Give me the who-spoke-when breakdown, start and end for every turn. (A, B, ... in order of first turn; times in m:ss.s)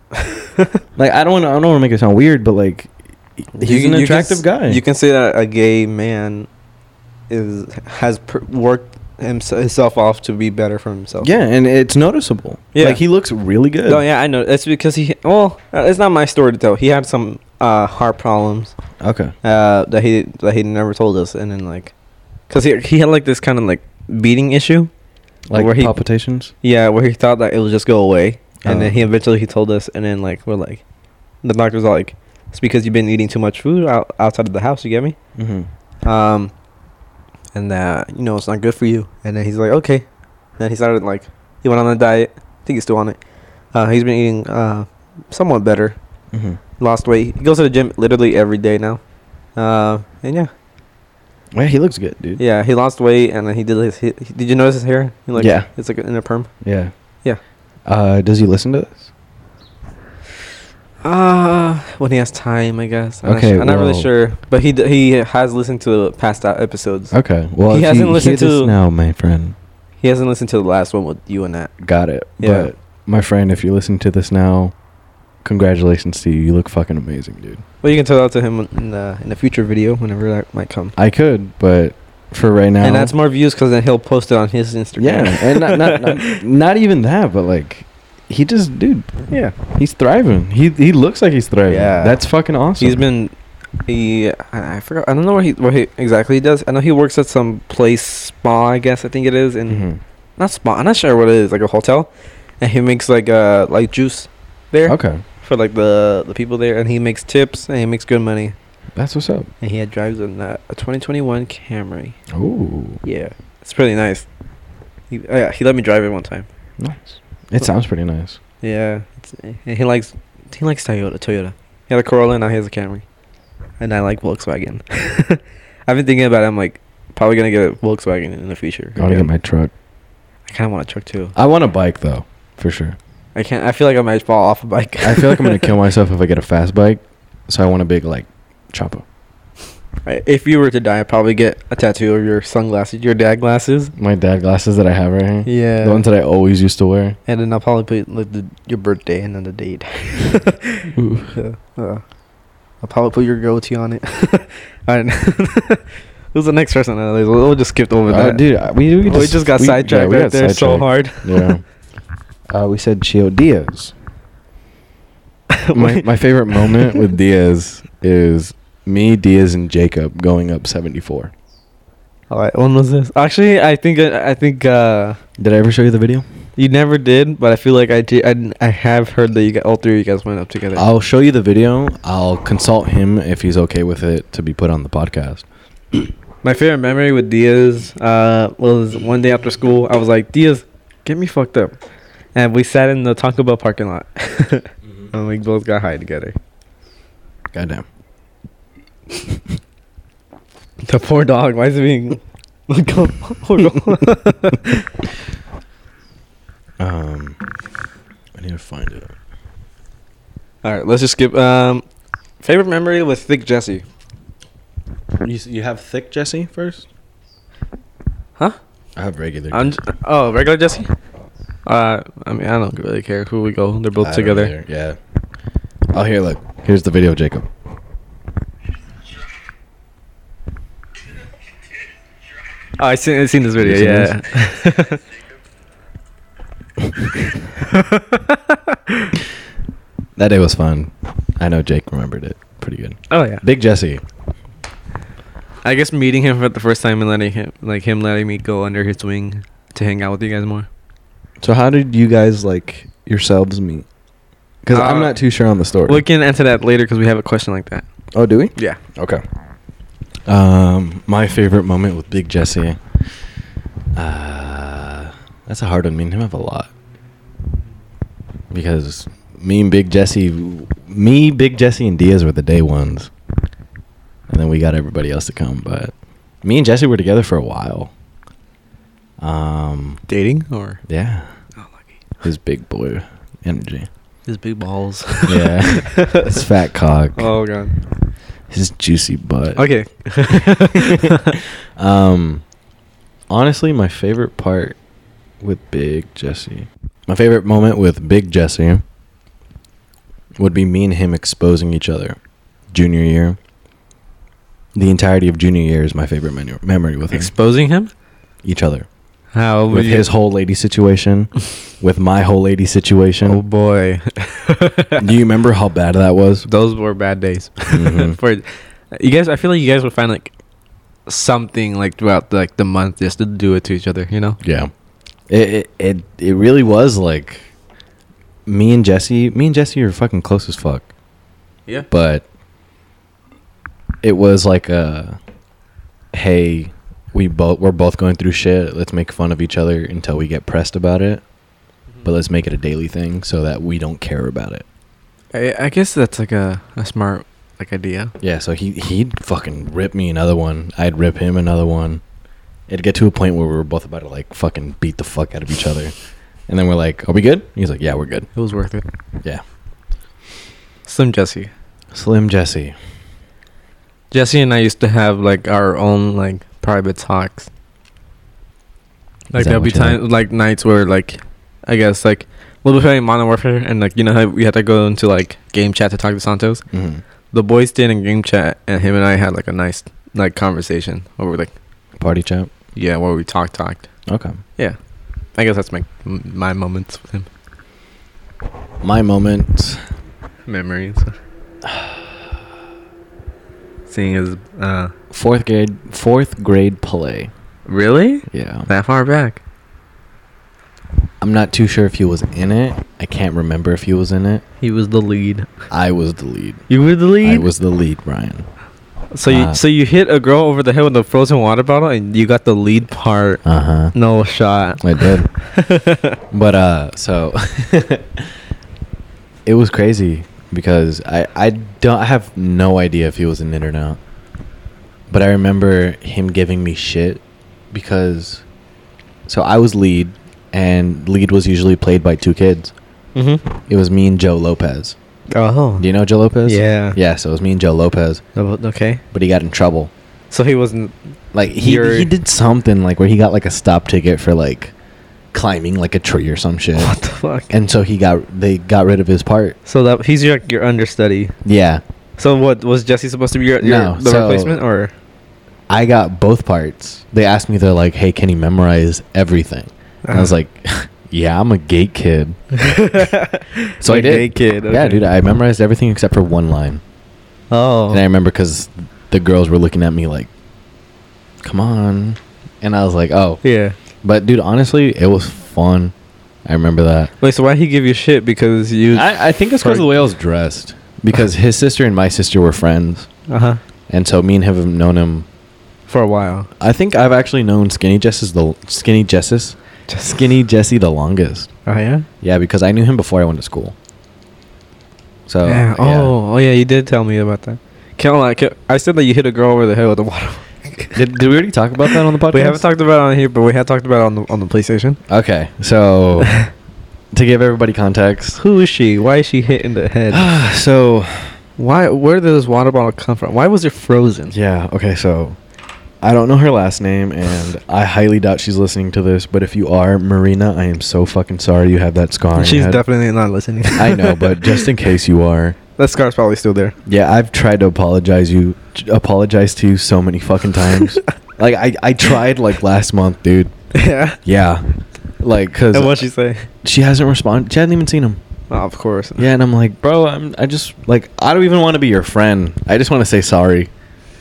0:00.2-0:00.8 A
0:01.0-0:02.9 B
0:03.4-0:04.8 B
0:03.6-0:06.5 A
0:07.3-0:11.3 A
0:11.2-0:14.0 B
0:12.7-0:13.0 A
0:13.9-0:18.7 A
0:19.0-0:19.3 B
0:19.4-0:21.9 A
0:22.5-0:24.9 A
0:25.5-0:26.5 B
0:25.5-0:25.9 A
0:26.6-0:30.8 A
0:28.6-0:29.0 B
0:31.4-0:35.2 A
0:35.4-0:35.7 B
0:36.0-0:36.5 A
0:37.5-0:40.0 A
0:40.6-0:43.2 A
0:43.7-0:46.0 A
0:46.3-0:46.6 B
0:46.8-0:49.0 A
0:49.6-0:50.5 A
0:51.5-0:52.4 B
0:52.4-0:56.5 A
0:55.4-0:55.7 B
0:56.6-0:56.9 B
0:57.8-0:59.1 B
1:01.0-1:07.1 A
1:03.2-1:04.1 B
1:07.1-1:09.6 B
1:07.7-1:08.7 A
1:10.0-1:11.7 A
1:11.8-1:14.7 B
1:12.4-1:12.7 A
1:15.4-1:17.6 B
1:17.8-1:20.9 A
1:21.0-1:23.1 B
1:22.8-1:26.4 A
1:25.0-1:33.0 B
1:29.3-1:29.6 A
1:31.7-1:32.2 A
1:32.8-1:33.3 A
1:33.9-1:39.8 A
1:39.7-1:40.0 B
1:40.4-1:48.6 A
1:44.8-1:45.2 B
1:48.9-1:49.5 B
1:49.6-1:52.2 A
1:52.3-1:53.0 B
1:53.0-1:54.3 A
1:55.1-1:56.5 A
1:56.8-1:58.4 B
1:58.6-2:03.0 A
2:03.8-2:09.3 A
2:09.0-2:09.7 B
2:10.5-2:11.3 A
2:11.3-2:13.0 B
2:13.3-2:15.7 A
2:15.0-2:19.0 B
2:20.0-2:23.9 A
2:24.0-2:27.2 B
2:25.4-2:26.0 A
2:27.3-2:32.0 A
2:31.0-2:31.3 B
2:32.8-2:38.4 A
2:38.1-2:41.6 B
2:39.0-2:41.5 A
2:42.5-2:43.9 B
2:45.5-2:47.1 A
2:45.7-2:51.3 B
2:52.3-2:55.2 A
2:55.4-2:56.2 B
2:56.6-3:00.8 A
3:00.7-3:05.4 B
3:06.4-3:11.8 A
3:12.3-3:16.4 A
3:17.5-3:17.8 B
3:20.8-3:24.9 A
3:26.8-3:27.4 B
3:28.4-3:29.1 B
3:30.6-3:31.8 A
3:32.4-3:33.8 A
3:35.2-3:36.9 B
3:39.0-3:39.8 B
3:39.5-3:40.9 A
3:41.6-3:44.5 A
3:44.0-3:45.0 B
3:45.9-3:47.5 B
3:52.8-3:55.0 A
3:53.6-3:54.2 B
3:57.6-3:59.1 A
4:00.2-4:04.0 B
4:03.1-4:03.4 A
4:05.6-4:10.7 A
4:11.4-4:13.8 B
4:14.6-4:16.0 B
4:14.7-4:15.2 A
4:15.9-4:17.8 A
4:18.1-4:19.2 B
4:20.3-4:22.8 B
4:23.9-4:26.7 B
4:28.5-4:33.1 B
4:34.3-4:37.9 B
4:39.2-4:40.0 B
4:40.1-4:40.8 A
4:40.9-4:41.3 B
4:42.2-4:43.9 B
4:44.2-4:46.4 A
4:45.3-4:47.3 B
4:47.2-4:47.7 A
4:48.5-4:49.6 B
4:49.6-4:51.3 A
4:50.3-4:52.4 B
4:53.3-4:54.8 B
4:55.4-4:58.8 B
5:00.4-5:02.2 B
5:02.7-5:03.4 B
5:04.7-5:07.3 B
5:07.1-5:07.9 A
5:08.4-5:08.9 B
5:09.3-5:10.1 A
5:09.7-5:13.4 B
5:13.2-5:15.1 A
5:15.0-5:16.5 B
5:16.4-5:20.3 A
5:17.7-5:18.2 B
5:21.1-5:24.4 A
5:24.4-5:24.7 B
5:25.3-5:27.5 B
5:28.5-5:30.9 B
5:31.9-5:32.2 B
5:34.0-5:35.2 B
5:36.1-5:41.2 B
5:42.0-5:44.6 B
5:45.3-5:48.1 A
5:48.2-5:52.0 B
5:52.7-5:55.9 B
5:56.5-5:58.3 B
5:58.3-5:58.8 A
6:00.8-6:01.5 A
6:01.9-6:02.8 B
6:04.1-6:07.5 A
6:09.3-6:16.6 A
6:09.3-6:10.0 B
6:16.7-6:17.0 B
6:17.3-6:21.5 A
6:22.0-6:22.5 B
6:22.7-6:23.9 A
6:24.1-6:24.4 B
6:25.4-6:27.3 A
6:28.8-6:29.8 B
6:30.4-6:31.2 A
6:31.6-6:32.1 B
6:33.9-6:34.9 A
6:35.1-6:37.3 B
6:37.6-6:39.4 A
6:38.3-6:38.7 B
6:41.2-6:44.4 B
6:44.6-6:45.5 A
6:45.7-6:46.6 B
6:46.7-6:47.5 A
6:47.2-6:48.4 B
6:49.1-6:53.4 A
6:49.2-6:49.6 B
6:53.4-6:53.9 B
6:53.9-6:56.2 A
6:54.8-6:55.3 B
6:56.3-6:58.3 B
6:59.4-7:04.0 B
7:05.1-7:08.4 B
7:09.3-7:12.7 B
7:13.1-7:13.4 A
7:13.7-7:15.0 B
7:15.3-7:15.8 A
7:15.8-7:18.2 B
7:16.4-7:17.0 A
7:18.4-7:19.0 A
7:19.1-7:19.9 B
7:20.3-7:20.9 A
7:21.3-7:24.7 B
7:21.6-7:22.1 A
7:25.3-7:26.9 B
7:26.8-7:27.5 A
7:27.5-7:29.6 B
7:29.6-7:31.3 A
7:31.4-7:31.8 B
7:32.2-7:34.9 A
7:33.6-7:34.6 B
7:35.7-7:42.4 B
7:40.0-7:40.3 A
7:42.5-7:45.0 A
7:43.8-7:46.8 B
7:47.5-7:48.0 A
7:47.9-7:50.3 B
7:51.4-7:53.4 B
7:53.4-7:53.8 A
7:54.0-7:55.9 B
7:56.4-7:57.1 B
7:57.2-7:59.9 A
7:58.9-8:03.1 B
8:03.3-8:03.6 A
8:03.9-8:05.3 B
8:05.9-8:06.5 A
8:06.6-8:11.5 B
8:09.9-8:10.2 A
8:11.6-8:12.1 A
8:12.2-8:13.7 B
8:15.3-8:16.1 B
8:15.4-8:21.0 A
8:20.9-8:22.6 B
8:21.8-8:25.0 A
8:25.1-8:26.4 B
8:27.1-8:28.4 B
8:28.4-8:30.3 A
8:30.1-8:31.4 B
8:31.6-8:34.3 A
8:34.3-8:35.4 B
8:36.0-8:42.8 B
8:42.3-8:44.7 A
8:43.7-8:45.6 B
8:45.8-8:46.7 A
8:46.8-8:53.5 B
8:53.7-8:54.2 A
8:54.2-8:54.7 B
8:55.2-8:56.0 B
8:55.7-8:56.5 A
8:56.6-8:58.2 B
8:58.5-8:59.3 A
8:59.2-9:03.7 B